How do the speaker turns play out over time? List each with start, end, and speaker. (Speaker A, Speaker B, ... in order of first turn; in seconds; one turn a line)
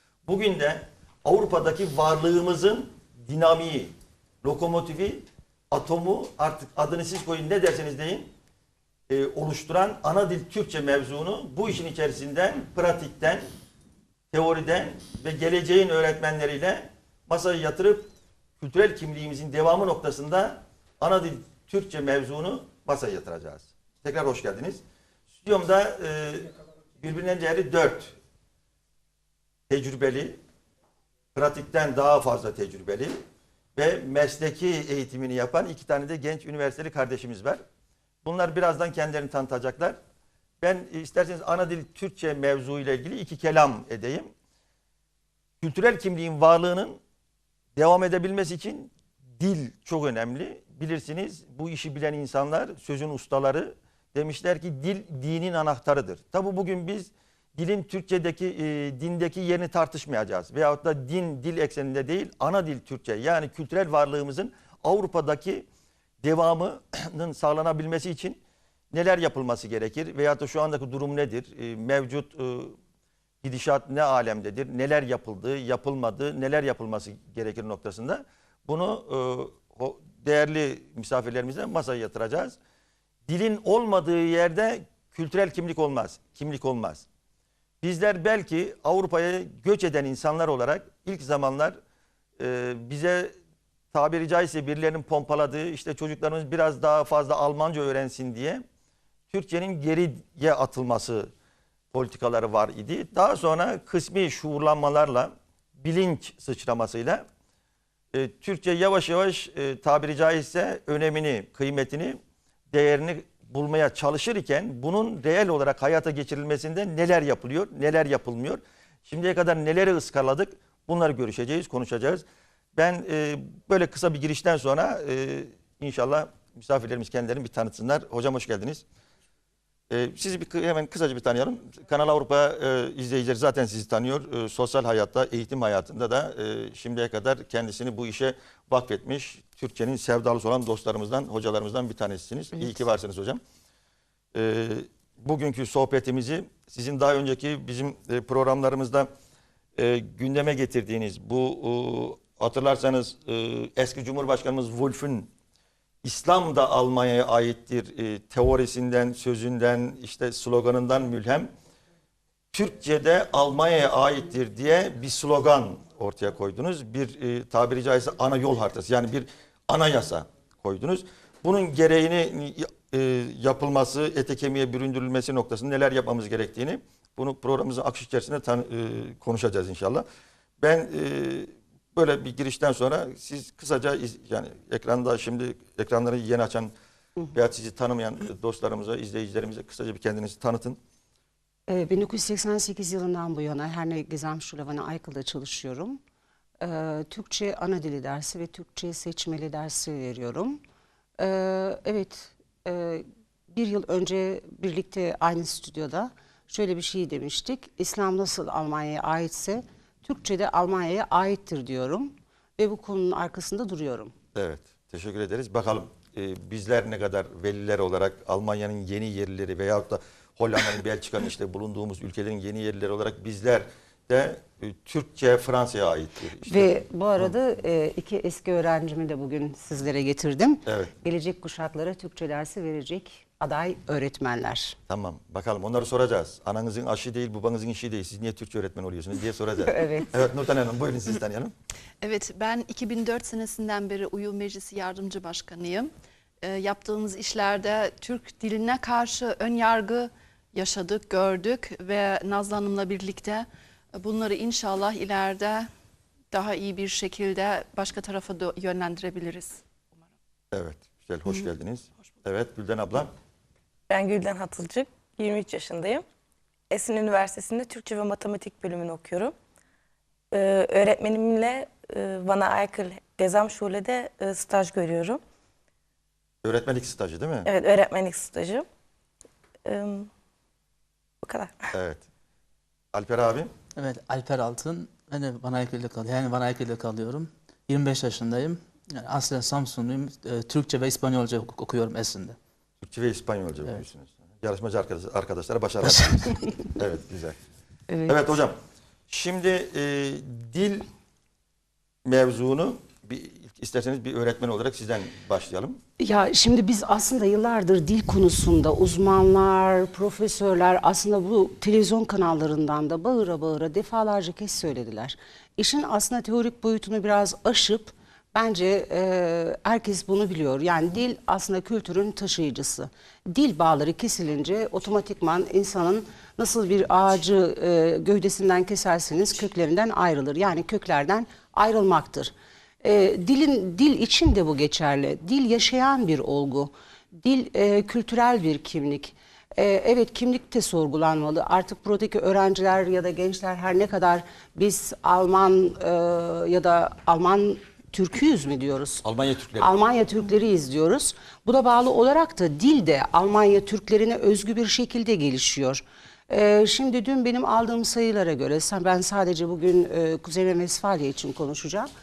Speaker A: 0.3-8.3
Speaker A: 9.1-13.4
Speaker A: 14.3-24.8
Speaker A: 25.4-28.1
Speaker A: 29.7-30.4
Speaker A: 31.4-33.2
Speaker A: 33.8-37.6
Speaker A: 38.2-40.0
Speaker A: 40.6-44.3
Speaker A: 45.6-47.0
Speaker A: 47.8-65.7
Speaker A: 66.2-68.4
Speaker A: 68.9-72.8
Speaker A: 73.4-82.6
Speaker A: 83.3-87.0
Speaker A: 87.8-91.8
Speaker A: 92.4-93.3
Speaker A: 93.9-98.6
Speaker A: 99.3-101.3
Speaker A: 101.9-107.2
Speaker A: 108.1-112.2
Speaker A: 112.7-128.8
Speaker A: 129.9-143.4
Speaker A: 144.3-149.1
Speaker A: 149.8-155.3
Speaker A: 156.0-161.5
Speaker A: 162.5-180.1
Speaker A: 180.6-186.7
Speaker A: 187.3-190.8
Speaker B: 191.7-196.0
Speaker B: 196.6-200.6
Speaker B: 201.2-214.1
Speaker A: 214.3-227.3
Speaker B: 226.5-234.8
Speaker A: 230.7-230.9
Speaker A: 234.9-241.5
Speaker B: 239.7-240.1
Speaker C: 242.0-245.9
Speaker C: 246.4-255.7
Speaker C: 256.3-259.6
Speaker A: 260.5-263.1
Speaker D: 263.9-266.1
Speaker D: 266.7-269.4
Speaker D: 270.3-275.2
Speaker A: 276.4-277.5
Speaker D: 277.4-278.7
Speaker D: 279.6-280.1
Speaker D: 281.2-281.7
Speaker A: 281.7-282.0
Speaker A: 282.9-283.5
Speaker E: 283.8-292.4
Speaker A: 292.8-297.4
Speaker A: 298.1-298.6
Speaker A: 299.1-300.9
Speaker A: 302.1-305.8
Speaker B: 306.0-349.0
Speaker A: 349.0-349.7
Speaker B: 349.6-361.9